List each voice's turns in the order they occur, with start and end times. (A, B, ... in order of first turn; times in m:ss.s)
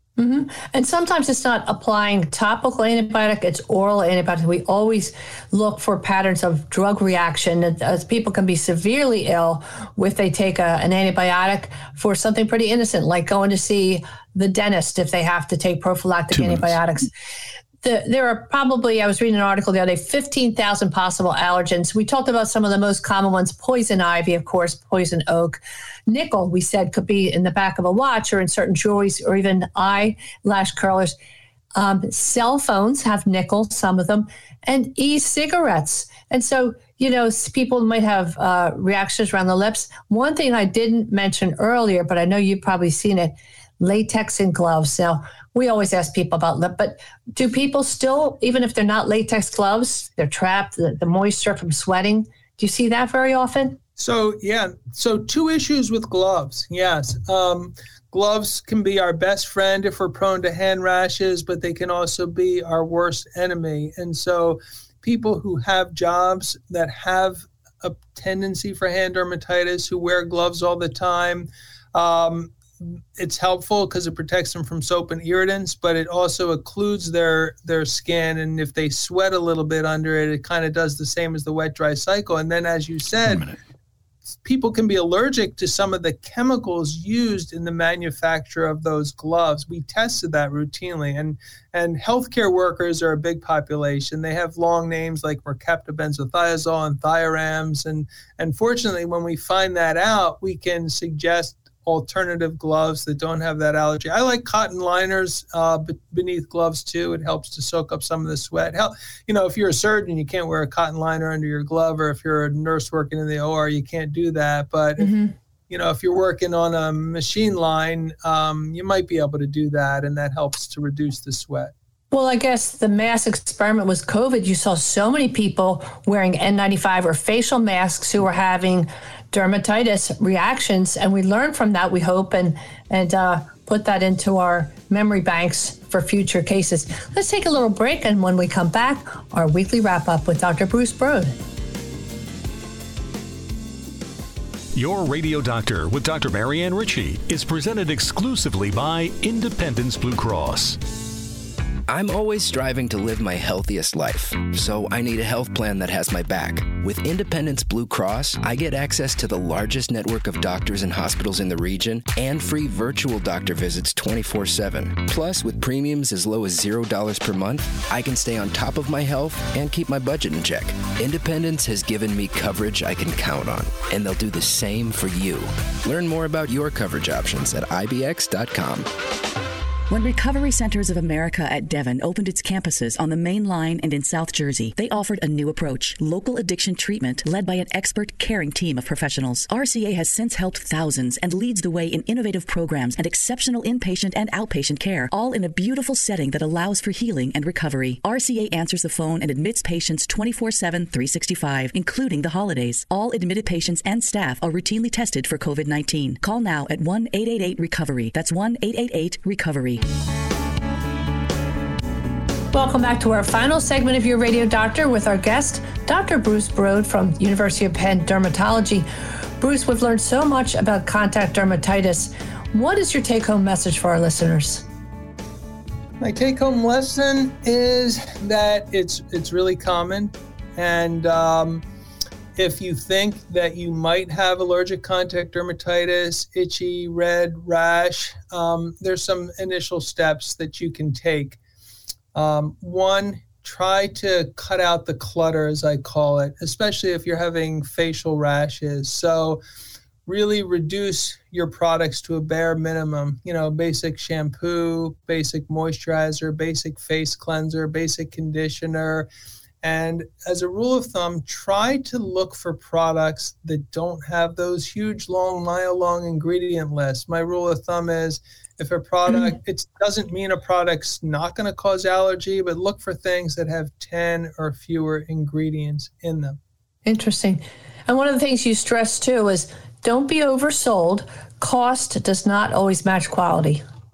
0:00.2-0:17.1 A
0:16.4-0:16.6 B
0:17.8-0:31.2 A
0:31.8-0:53.8 A
0:54.0-1:23.5 C
1:24.4-1:55.1 C
1:55.0-1:55.3 A
1:55.7-2:01.7 C
2:02.1-2:21.4 A
2:24.7-2:30.8 B
2:31.9-2:58.9 D
2:59.9-3:29.8 E
3:32.5-3:38.9 A
3:39.4-3:44.6 A
3:46.0-3:51.6 C
3:52.4-4:01.4 C
4:02.1-4:09.4 C
4:10.0-4:19.1 C
4:19.6-4:36.4 C
4:29.1-4:29.4 A
4:36.8-4:43.6 A